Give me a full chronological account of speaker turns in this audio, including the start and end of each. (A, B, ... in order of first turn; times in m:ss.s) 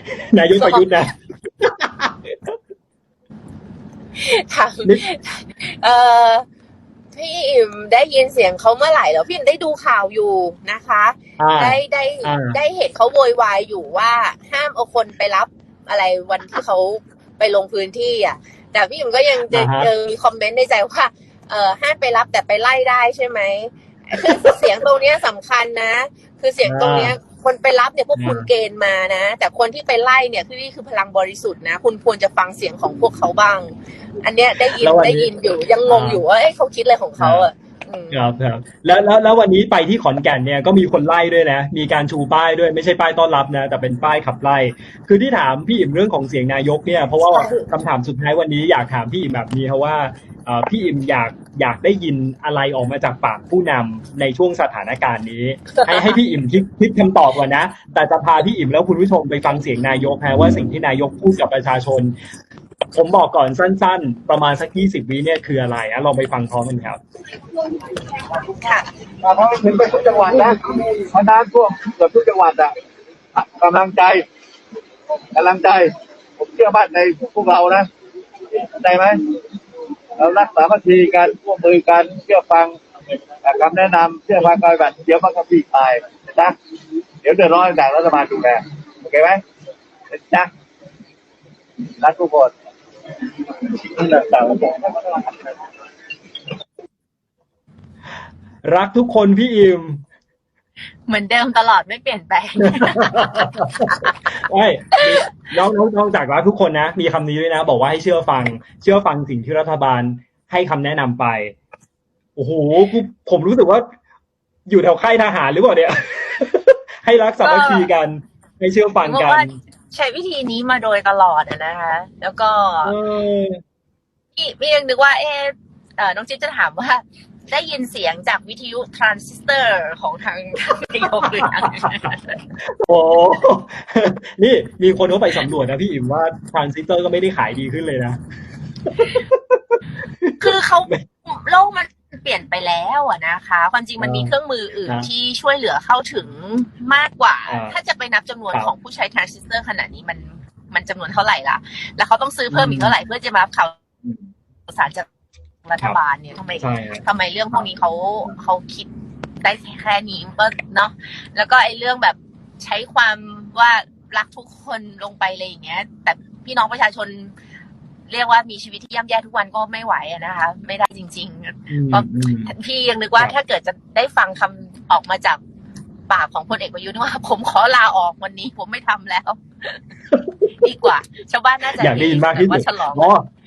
0:00.3-0:02.6 A
0:00.5-0:00.9 B
0:04.2-0:06.4 B
0:07.1-0:38.2 B
0:11.4-0:12.6 A
0:19.5-0:19.9 A
0:24.2-0:24.6 A
0:26.6-0:27.2 A
0:28.1-0:28.5 A
0:34.6-0:35.3 A
0:35.9-0:36.2 A
0:37.2-0:37.5 A
0:38.1-1:02.2 A
0:47.3-0:47.6 B
0:55.7-0:56.2 B
1:02.9-1:07.0 A
1:08.6-1:08.8 B
1:09.2-1:12.7 C
1:13.3-1:14.2 C
1:15.3-1:17.9 C
1:18.5-1:19.2 C
1:20.2-1:22.8 C
1:23.4-1:26.5 C
1:27.2-1:29.4 C
1:30.1-1:30.5 C
1:32.0-1:32.5 C
1:33.5-1:35.5 C
1:38.6-1:40.0 A
1:41.1-1:44.3 B
1:42.6-1:51.6 A
1:45.0-1:45.2 B
1:52.4-1:53.9 A
1:54.7-1:59.5 A
1:57.4-1:57.9 B
1:59.0-2:02.9 B
2:02.8-2:03.6 A
2:04.4-2:12.4 B
2:11.2-2:11.9 A
2:12.7-2:18.2 A
2:18.9-2:21.0 A
2:20.4-2:33.8 B
2:24.0-2:24.3 A
2:27.5-2:27.8 A
2:32.5-2:32.9 A
2:34.7-2:35.0 B
2:35.6-2:38.9 B
2:36.6-2:37.7 A
2:39.4-2:47.3 B
2:48.1-2:55.4 B
2:51.7-2:52.5 A
2:56.1-2:59.8 B
3:00.6-3:03.1 B
3:01.7-3:03.3 A